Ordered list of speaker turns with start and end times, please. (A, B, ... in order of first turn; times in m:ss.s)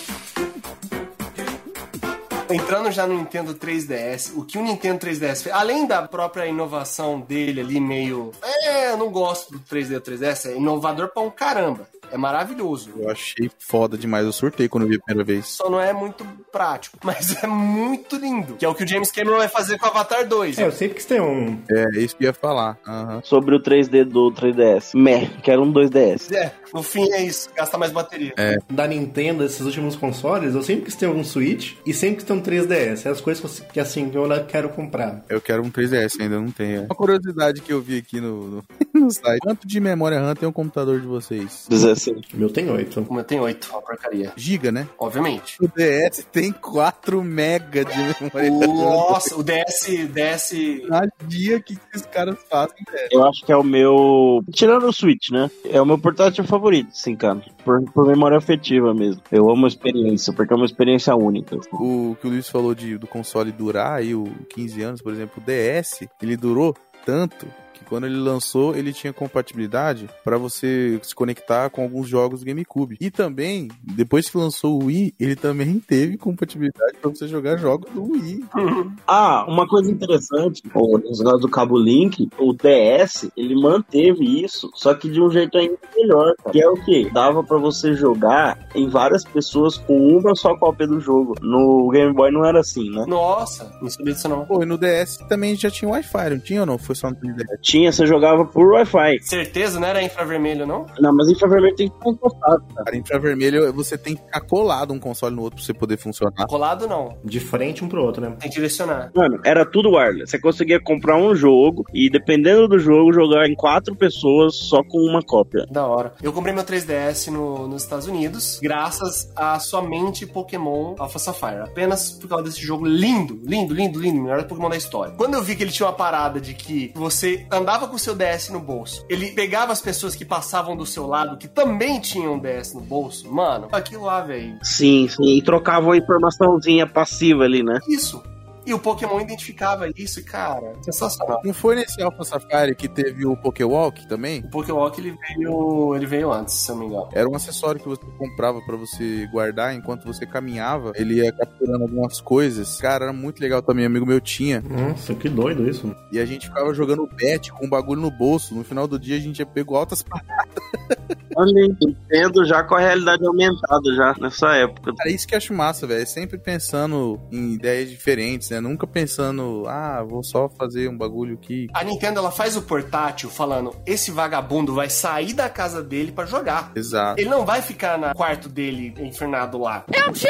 0:02.5-0:13.0 A
0:12.9-0:15.5 B
0:15.5-0:20.7 A
0:20.5-0:21.6 C
0:21.7-0:23.2 B
0:23.2-0:26.3 D
0:26.3-0:28.4 A
0:28.4-0:28.6 B
0:28.7-0:35.2 C
0:35.3-0:41.7 B
0:41.7-0:42.2 D
0:42.3-0:43.1 C
0:43.1-0:44.3 A
0:44.4-0:44.9 B
0:45.0-0:45.6 A
0:45.6-0:49.3 B
0:48.4-0:50.9 A
0:50.8-0:53.1 B
0:53.1-1:01.8 D
1:01.8-1:18.5 B
1:18.5-1:19.0 A
1:19.1-1:33.1 D
1:33.0-1:34.5 A
1:34.5-1:37.6 B
1:37.6-1:39.2 D
1:39.2-1:40.9 A
1:41.0-1:42.9 D
1:42.8-1:46.5 B
1:46.5-1:47.2 A
1:47.2-1:48.4 C
1:48.4-1:49.1 A
1:49.1-1:55.7 D
1:55.7-2:14.6 A
2:14.6-2:17.8 D
2:17.8-2:21.4 A
2:21.4-2:24.4 B
2:24.4-2:27.1 A
2:27.1-2:34.6 B
2:34.6-2:36.0 C
2:36.1-2:41.0 B
2:41.3-2:45.0 D
2:45.0-2:51.7 B
2:51.7-2:59.9 A
2:56.8-2:57.2 B